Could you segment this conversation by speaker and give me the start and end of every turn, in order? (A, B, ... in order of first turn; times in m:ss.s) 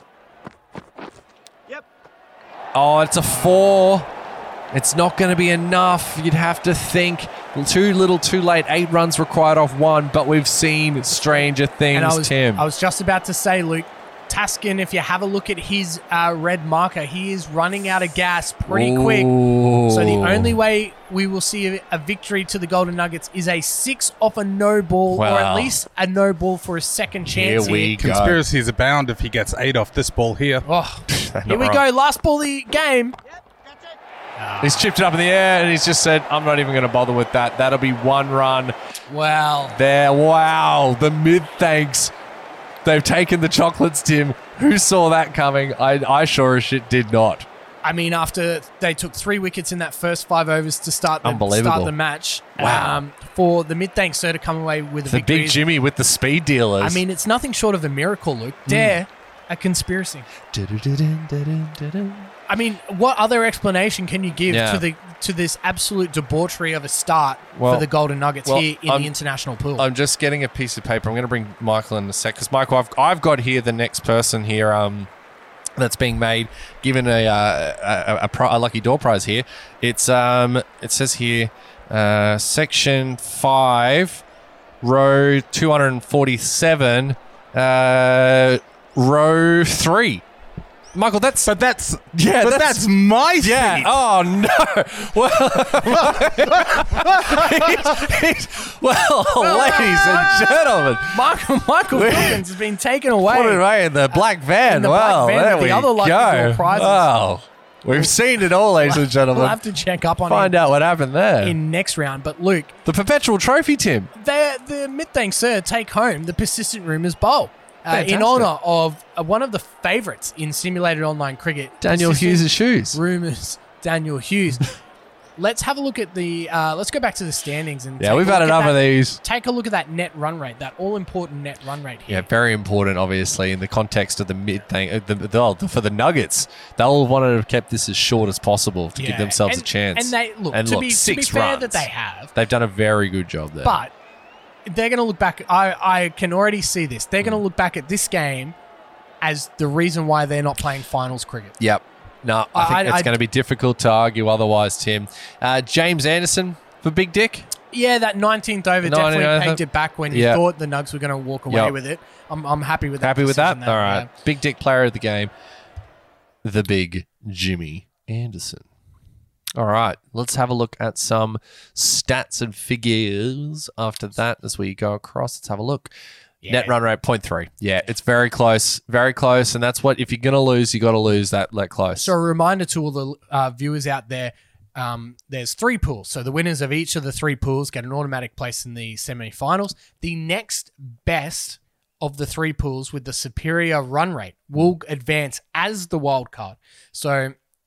0:02.7-0:04.1 A
0:04.7-0:12.7 A
0:11.9-0:19.4 B
0:18.7-0:20.6 A
0:19.9-0:28.0 B
0:25.1-0:25.8 A
0:27.3-0:28.4 A
0:28.0-0:30.6 C
0:30.6-0:33.2 B
0:31.1-0:31.8 A
0:34.4-0:34.9 B
0:34.6-0:38.7 A
0:39.1-0:39.8 B
0:39.7-0:42.1 A
0:42.8-0:47.5 A
0:47.8-0:55.7 B
0:51.2-0:51.9 A
0:52.6-0:53.0 A
0:55.1-0:57.0 A
0:56.8-1:00.3 B
0:58.7-0:59.0 A
1:00.5-1:02.3 A
1:02.5-1:09.9 B
1:04.5-1:04.9 A
1:07.5-1:07.9 A
1:08.5-1:09.1 A
1:09.8-1:15.1 A
1:15.8-1:24.2 A
1:24.8-1:30.2 A
1:30.9-1:31.5 A
1:31.4-1:34.0 C
1:32.1-1:41.3 A
1:35.9-1:37.9 C
1:39.3-1:43.6 B
1:41.9-1:42.5 A
1:43.2-1:49.6 A
1:44.6-1:47.1 B
1:48.8-1:50.6 B
1:50.3-1:51.6 A
1:51.4-1:52.7 B
1:52.8-1:54.1 A
1:54.1-2:04.8 B
1:57.9-1:58.5 A
2:01.8-2:03.0 A
2:05.4-2:12.3 B
2:08.0-2:09.2 A
2:12.1-2:23.8 A
2:19.0-2:22.3 B
2:23.6-2:23.9 B
2:24.7-2:28.6 B
2:29.2-2:31.6 B
2:31.6-2:37.5 A
2:32.5-2:33.1 B
2:37.7-2:44.1 B
2:38.8-2:40.4 A
2:41.5-2:41.8 A
2:43.0-2:45.3 A
2:46.4-2:48.7 A
2:49.6-2:55.9 A
2:56.4-2:56.7 B
2:56.5-3:02.1 A
3:02.0-3:17.4 B